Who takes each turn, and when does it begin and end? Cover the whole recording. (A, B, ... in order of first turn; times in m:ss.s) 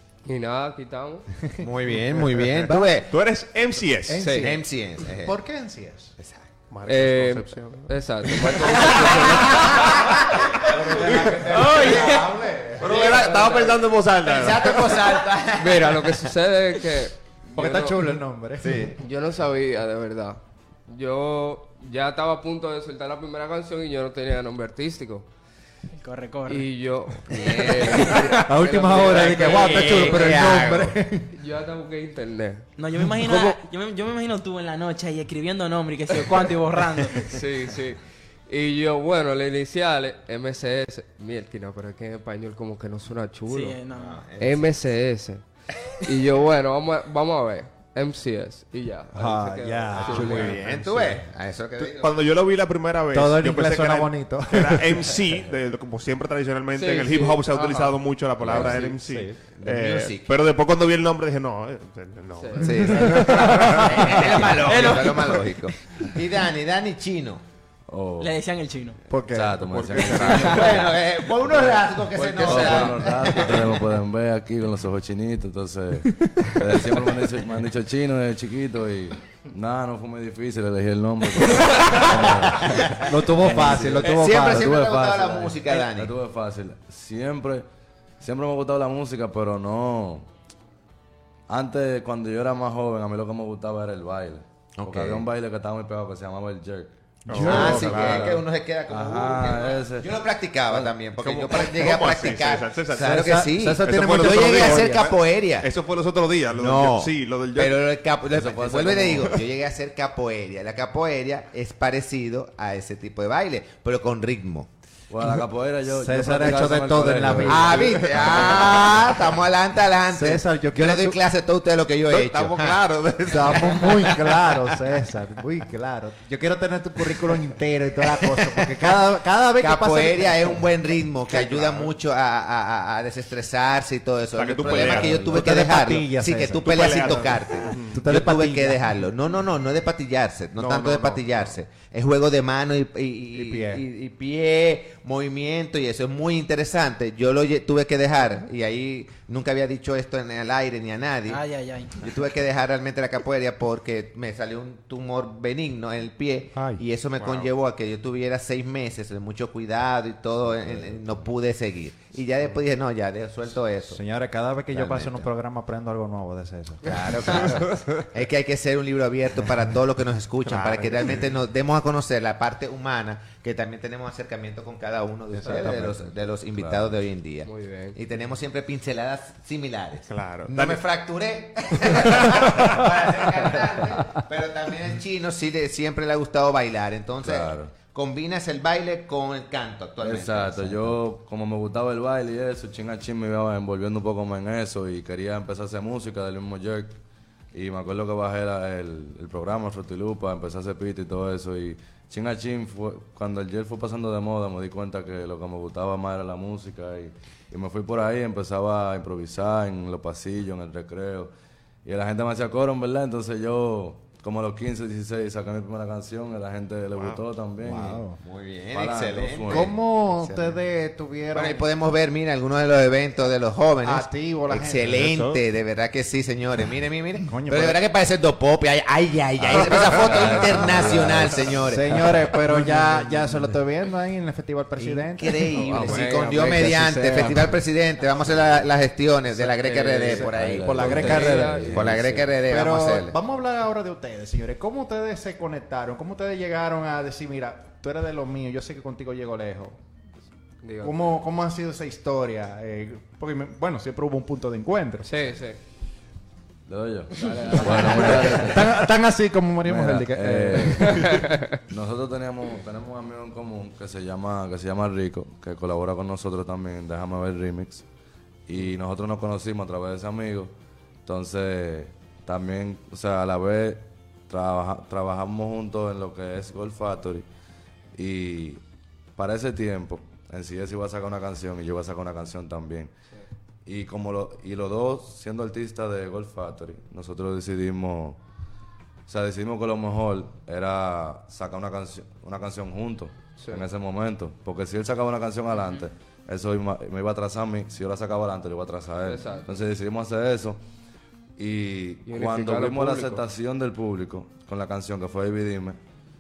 0:00.3-0:01.3 A
0:01.4-0:03.0 B
0:01.6-0:03.1 C
0:03.1-0:04.3 D
0:04.0-0:06.1 B
0:04.2-0:04.5 A
0:04.4-0:05.4 C
0:06.2-0:06.5 C
0:06.7-0:09.0 D
0:06.9-0:09.6 A
0:08.9-0:09.8 E
0:10.6-0:13.3 B
0:11.0-0:11.4 D
0:11.5-0:12.4 E
0:11.7-0:12.1 C
0:12.8-0:15.0 D
0:12.8-0:13.7 C
0:13.3-0:13.7 A
0:14.2-0:16.3 C
0:15.6-0:18.0 A
0:17.5-0:18.9 B
0:18.6-0:19.0 C
0:19.0-0:25.3 A
0:26.0-0:26.7 E
0:26.5-0:30.1 A
0:27.5-0:28.4 E
0:28.4-0:31.3 B
0:29.3-0:30.1 E
0:29.3-0:31.0 C
0:31.3-0:32.7 A
0:32.8-0:37.4 E
0:33.2-0:33.5 A
0:37.3-0:43.8 A
0:43.5-0:44.2 E
0:43.9-0:44.7 C
0:44.4-0:50.6 A
0:49.1-0:51.2 B
0:50.0-0:52.1 C
0:50.2-0:50.6 D
0:51.8-1:04.2 D
0:53.1-0:55.2 B
0:56.8-0:57.9 A
0:57.6-0:57.9 E
0:59.1-0:59.4 B
0:59.5-1:00.3 C
1:02.4-1:02.9 A
1:02.6-1:07.4 C
1:02.9-1:03.9 B
1:04.5-1:05.5 E
1:07.9-1:08.4 F
1:08.2-1:09.0 E
1:09.1-1:09.6 B
1:09.3-1:27.7 F
1:09.6-1:10.8 D
1:10.4-1:13.9 C
1:16.2-1:16.6 B
1:21.8-1:24.9 B
1:22.7-1:23.0 C
1:24.0-1:26.2 C
1:28.2-1:30.3 F
1:31.5-1:40.1 F
1:34.8-1:35.3 C
1:37.3-1:38.3 D
1:37.3-1:38.3 B
1:37.3-1:45.7 C
1:40.7-1:40.9 F
1:41.2-1:47.8 D
1:43.0-1:45.1 B
1:46.5-1:54.7 C
1:48.3-1:49.4 F
1:55.1-1:59.1 F
1:55.3-1:58.7 B
1:57.4-2:04.4 C
2:00.1-2:01.2 B
2:02.1-2:03.0 D
2:03.3-2:10.6 B
2:08.1-2:08.7 C
2:09.6-2:31.4 C
2:11.3-2:11.9 D
2:14.4-2:15.3 D
2:14.7-2:19.0 B
2:16.6-2:18.0 D
2:20.6-2:21.6 D
2:23.3-2:23.8 B
2:31.3-2:32.0 E
2:32.0-2:44.0 C
2:36.5-2:36.8 B
2:37.2-2:37.5 D
2:43.9-2:47.7 B
2:44.7-2:45.2 F
2:46.8-3:11.0 C
2:50.5-2:51.3 D
2:55.4-2:57.0 F
2:57.4-2:58.0 A
3:00.1-3:00.8 D
3:01.9-3:02.8 D
3:07.2-3:07.7 F
3:10.0-3:17.0 F
3:17.5-3:31.3 F
3:31.8-3:38.1 F
3:37.0-3:37.2 D
3:37.6-3:38.2 B
3:38.2-3:40.6 C
3:38.7-3:39.8 F
3:39.5-3:41.7 B
3:41.3-3:52.0 C
3:43.8-3:45.4 B
3:47.3-3:47.8 B
3:49.4-3:51.6 F
3:51.7-3:57.5 B
3:52.5-3:53.4 F
3:54.8-4:03.2 C
3:55.7-3:57.2 A
3:59.4-4:01.9 B
3:59.6-4:00.2 A
4:00.0-4:02.4 F
4:00.9-4:02.1 A
4:02.5-4:09.8 B
4:10.6-4:11.1 A
4:10.8-4:15.2 B
4:15.0-4:15.6 A
4:16.7-4:18.8 F
4:17.2-4:18.5 A
4:18.0-4:21.2 B
4:19.7-4:27.8 F
4:20.8-4:21.4 A
4:28.5-4:30.5 F
4:31.0-4:37.3 F
4:38.0-4:38.6 F
4:39.2-4:42.9 F
4:43.7-4:48.2 F
4:49.1-5:00.6 F
4:53.4-4:53.7 A
4:59.0-4:59.5 A
5:01.4-5:05.8 F
5:02.1-5:03.2 A